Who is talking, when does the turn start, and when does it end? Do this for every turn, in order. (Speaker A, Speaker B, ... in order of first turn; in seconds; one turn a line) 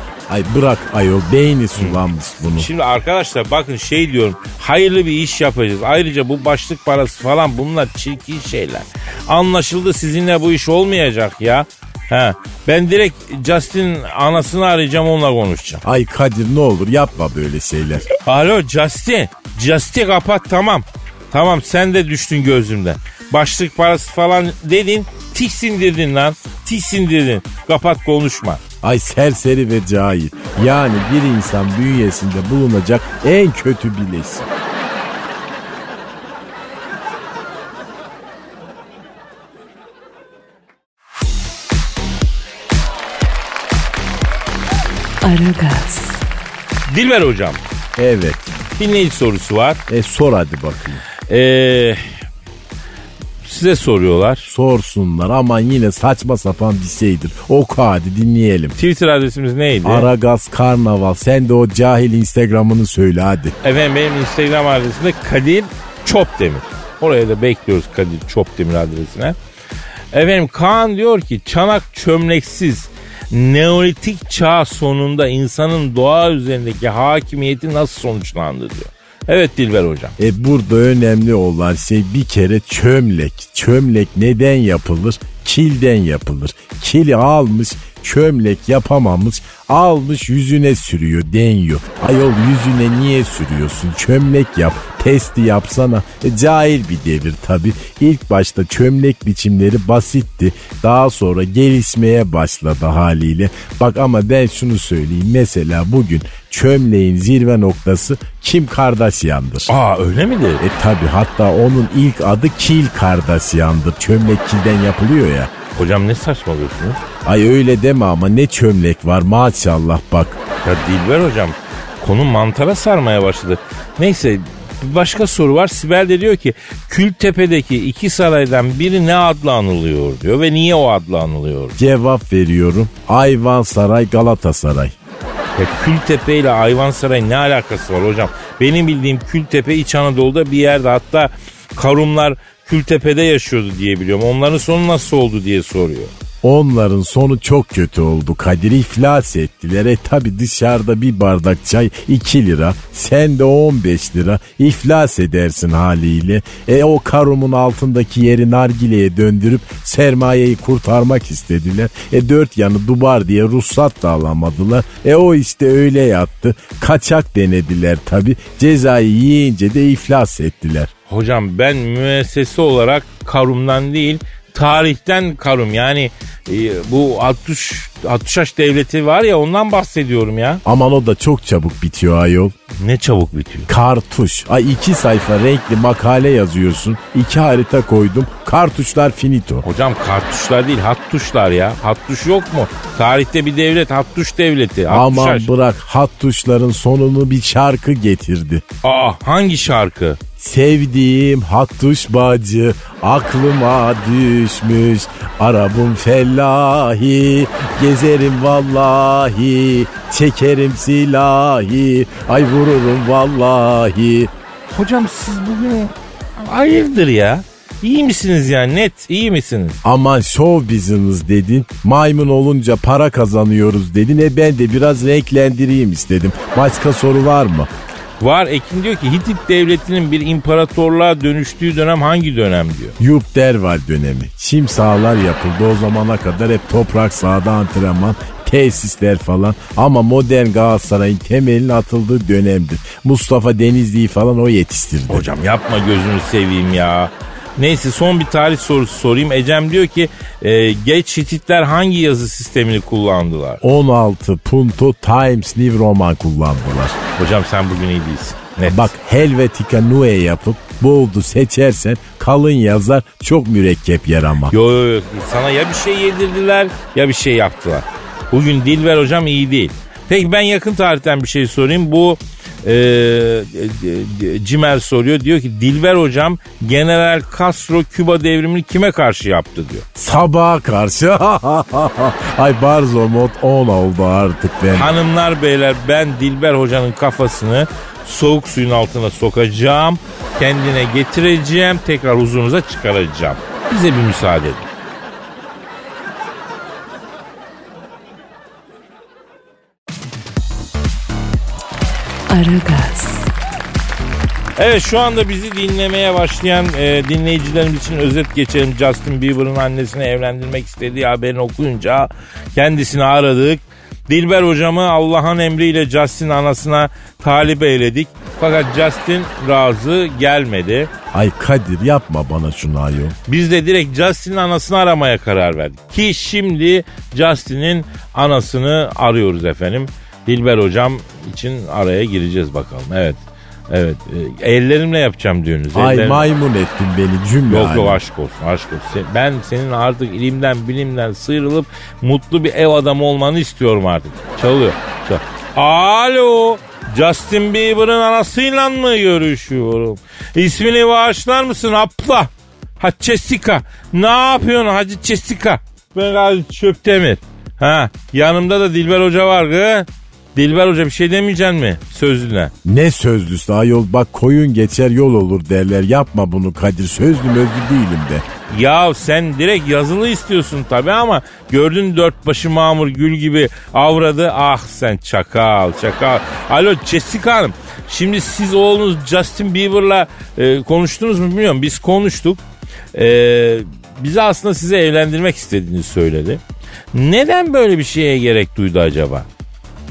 Speaker A: 0.3-2.7
Speaker B: 2.5-15.8
Speaker A: 15.8-18.1
Speaker B: 18.2-28.6
Speaker A: 28.8-34.5
Speaker C: 45.2-46.2
Speaker B: 46.9-47.6
Speaker A: 48.0-48.5
Speaker B: 48.8-49.8
Speaker A: 49.9-51.0
Speaker B: 51.3-52.2
Speaker B: 53.4-54.5
Speaker A: 54.4-58.7
Speaker B: 58.8-60.1
Speaker A: 59.8-63.5
Speaker B: 63.6-69.3
Speaker B: 70.1-80.1
Speaker A: 80.2-109.7
Speaker B: 109.7-110.6
Speaker A: 110.6-115.5
Speaker B: 115.7-117.0
Speaker A: 117.2-120.4
Speaker B: 120.6-131.8
Speaker A: 131.8-134.9
Speaker B: 135.6-146.1
Speaker A: 146.4-170.9
Speaker B: 171.1-180.6
Speaker A: 180.6-182.5
Speaker B: 182.7-183.7
Speaker A: 183.7-189.6
Speaker B: 189.6-195.5
Speaker A: 194.9-198.6
Speaker B: 198.8-200.2
Speaker A: 200.4-214.3
Speaker B: 214.7-219.8
Speaker A: 219.8-227.7
Speaker B: 228.2-232.9
Speaker A: 233.0-245.3
Speaker B: 245.1-253.6
Speaker A: 253.6-257.0
Speaker B: 257.1-258.9
Speaker A: 258.7-264.5
Speaker B: 264.5-279.9
Speaker A: 279.9-284.9
Speaker B: 284.7-294.6
Speaker C: 302.3-303.3
Speaker B: 304.6-320.9
Speaker A: 321.1-323.1
Speaker B: 323.3-336.3
Speaker A: 335.7-338.0
Speaker B: 337.5-362.5
Speaker A: 362.6-368.2
Speaker B: 368.5-382.4
Speaker B: 382.9-386.4
Speaker B: 386.9-389.3